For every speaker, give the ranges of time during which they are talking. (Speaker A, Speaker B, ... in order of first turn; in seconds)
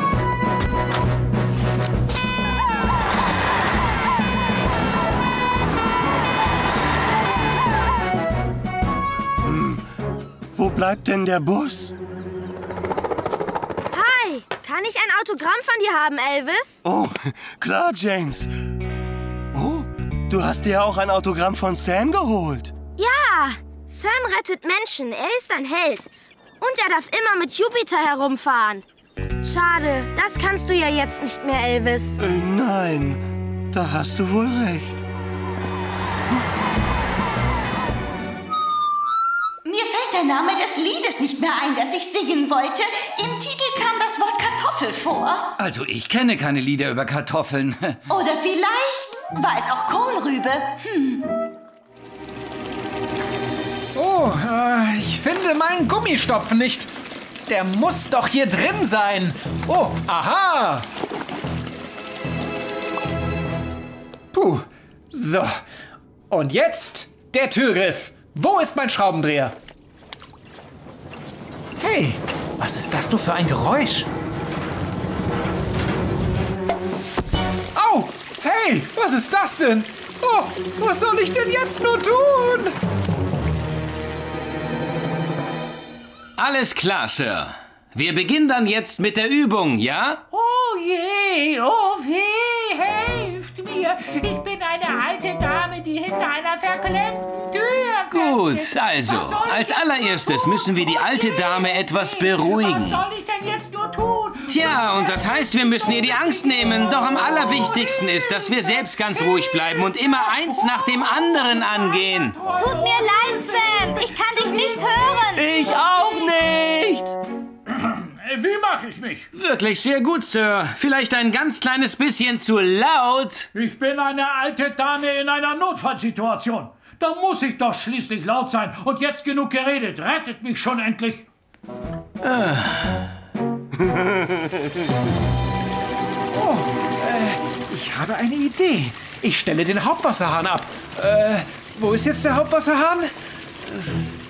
Speaker A: 9.4-9.8, 10.5-11.9, 16.8-18.5, 19.5-22.7, 32.2-35.0, 115.3-117.1
Speaker B: 13.9-16.8, 23.0-28.8, 29.4-32.2
Speaker C: 39.6-45.5, 48.1-51.3, 112.5-115.4
Speaker D: 45.6-48.0
Speaker E: 53.9-56.9, 57.5-60.9, 64.3-65.6, 66.3-69.5, 71.8-74.1, 77.7-82.8, 136.3-143.1
Speaker F: 86.4-90.2, 98.1-103.0, 104.5-112.4, 119.3-123.5, 132.2-133.0
Speaker G: 90.3-99.8, 100.7-104.5, 112.4-113.8, 117.7-119.3, 123.5-131.3